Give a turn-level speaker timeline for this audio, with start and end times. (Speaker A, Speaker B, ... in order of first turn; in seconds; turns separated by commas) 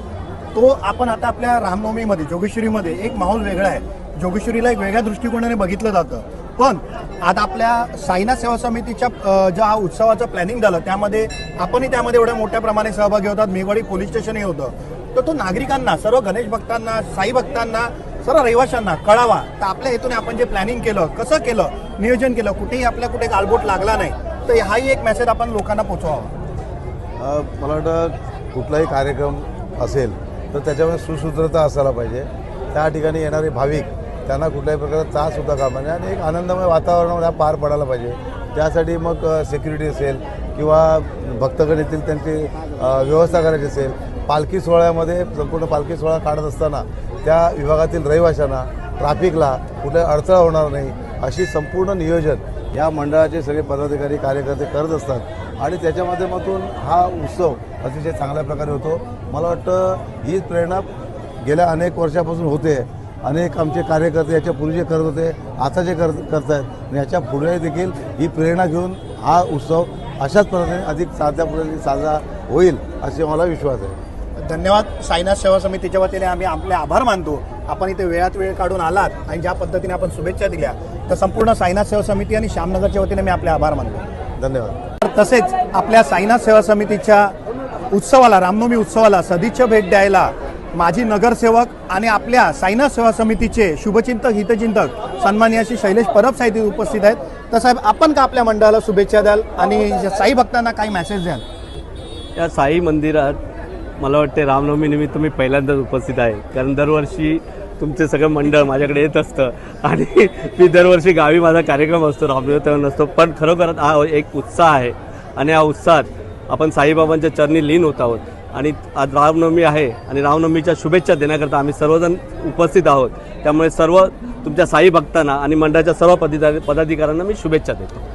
Speaker A: 0.5-26.3, Speaker B: 27.2-60.9, Speaker B: 61.4-74.0, Speaker A: 74.4-84.0, Speaker B: 84.4-84.8, Speaker A: 85.0-87.4, Speaker A: 87.9-101.4, Speaker C: 102.4-103.4, Speaker C: 104.0-128.0